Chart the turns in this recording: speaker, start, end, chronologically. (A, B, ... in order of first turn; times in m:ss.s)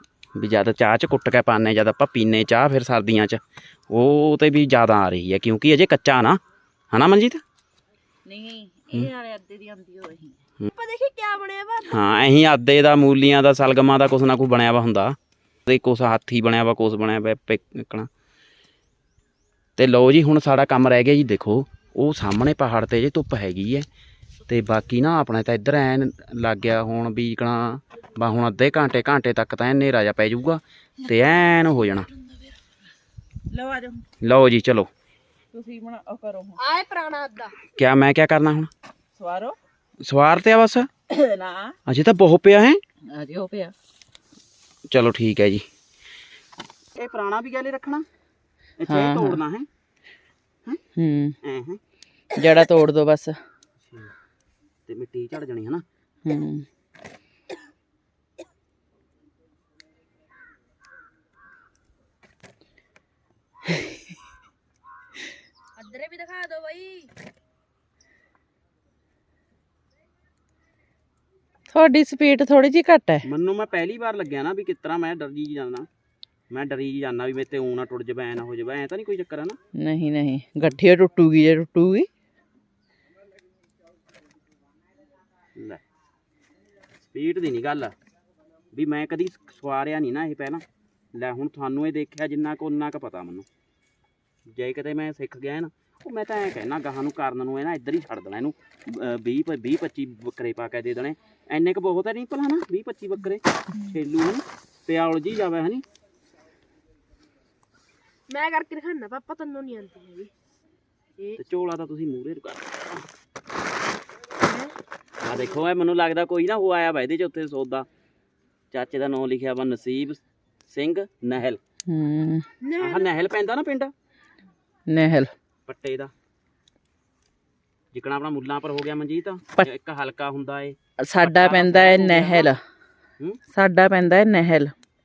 0:00.4-0:06.4 A
0:06.9-0:07.4 A
0:08.3-0:10.4 B
0:10.7-0:12.1 C
0:11.9-0:15.2 A
0:15.7-0:18.1 A
0:19.8-0:23.9 A
0:24.5-0:32.1 A
0:33.5-0:34.0 B
0:34.2-0:34.9 A
0:35.5-0:36.6 B
0:36.6-0:37.6 C
0:37.7-0:38.7 A
0:39.2-0:39.6 B
0:40.0-0:40.9 A
0:41.1-0:41.8 B
0:41.9-0:42.8 A
0:43.1-0:43.7 B
0:44.9-0:45.6 A
0:47.0-0:48.1 A
0:48.8-0:49.7 A
0:48.9-0:49.4 B
0:51.0-0:51.4 B
0:51.4-0:51.8 A
0:52.4-0:53.4 B
0:53.8-0:54.1 A
0:54.9-0:55.8 A
0:56.3-0:56.7 B
1:05.8-1:07.1 C
1:11.7-1:13.3 B
1:13.2-1:15.9 A
1:16.5-1:19.6 A
1:19.8-1:22.1 B
1:25.6-1:25.8 A
1:27.0-1:28.0 A
1:28.7-1:30.6 A
1:31.2-1:33.5 A
1:34.5-1:45.8 A
1:48.3-1:50.3 C
1:51.4-1:53.1 A
1:54.4-1:54.7 C
1:55.2-1:57.9 A
1:58.7-2:01.6 A
2:01.9-2:02.4 B
2:02.6-2:03.1 C
2:02.8-2:03.9 A
2:04.9-2:05.3 B
2:05.7-2:06.1 A
2:07.9-2:12.5 A
2:11.0-2:12.6 B
2:13.5-2:14.7 B